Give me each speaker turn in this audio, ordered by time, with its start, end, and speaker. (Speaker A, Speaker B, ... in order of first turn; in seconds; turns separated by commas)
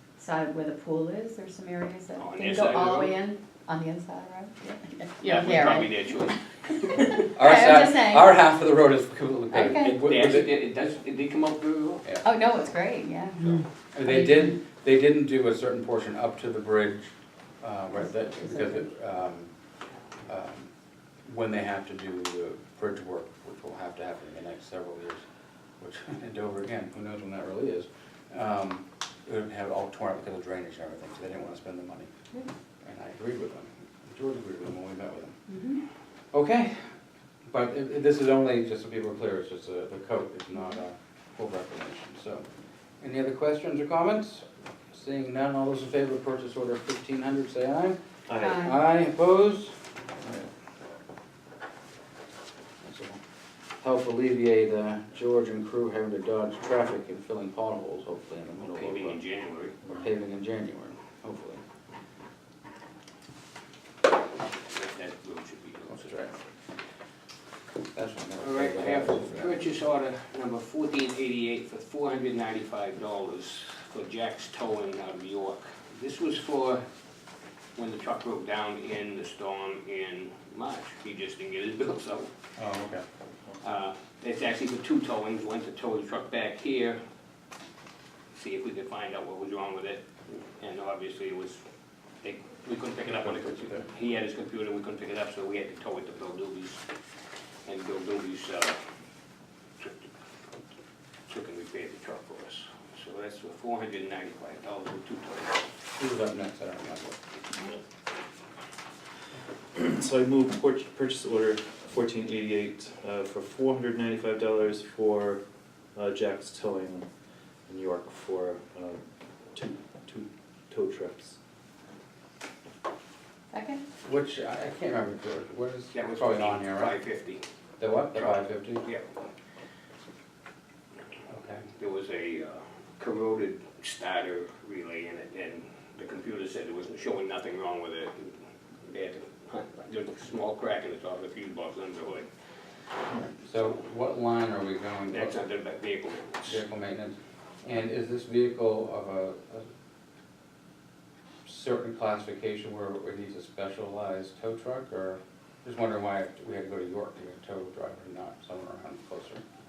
Speaker A: 0.2-6.4, Speaker B: 2.2-3.2, Speaker B: 5.2-7.1, Speaker A: 6.9-8.4, Speaker C: 7.4-10.5, Speaker A: 9.5-10.0, Speaker B: 9.8-12.0, Speaker A: 12.2-14.6, Speaker C: 13.9-19.5, Speaker A: 18.4-18.8, Speaker C: 20.3-20.7, Speaker C: 21.3-25.2, Speaker C: 25.8-32.1, Speaker C: 32.8-35.4, Speaker A: 35.5-35.8, Speaker C: 36.3-36.9, Speaker C: 37.5-42.4, Speaker C: 43.0-50.4, Speaker D: 48.3-48.6, Speaker A: 48.4-48.8, Speaker C: 52.8-53.2, Speaker C: 53.8-59.2, Speaker B: 58.6-59.8, Speaker C: 60.0-61.6, Speaker B: 64.7-66.3, Speaker C: 65.9-66.3, Speaker C: 68.0-69.6, Speaker B: 68.4-76.8, Speaker B: 77.8-82.3, Speaker C: 82.6-83.0, Speaker B: 83.6-87.0, Speaker B: 88.3-91.6, Speaker B: 92.2-96.8, Speaker C: 93.0-93.9, Speaker B: 97.7-98.8, Speaker B: 101.3-105.6, Speaker C: 106.0-107.2, Speaker D: 109.8-115.4, Speaker D: 116.0-117.0, Speaker D: 117.7-119.0, Speaker D: 119.5-121.4, Speaker A: 123.5-123.8, Speaker C: 124.0-127.0, Speaker B: 125.9-127.4, Speaker C: 127.8-128.9, Speaker B: 128.1-129.1, Speaker C: 131.3-131.7, Speaker B: 131.8-142.3, Speaker C: 143.2-145.3, Speaker B: 145.1-146.6, Speaker C: 146.4-149.7, Speaker C: 151.4-159.4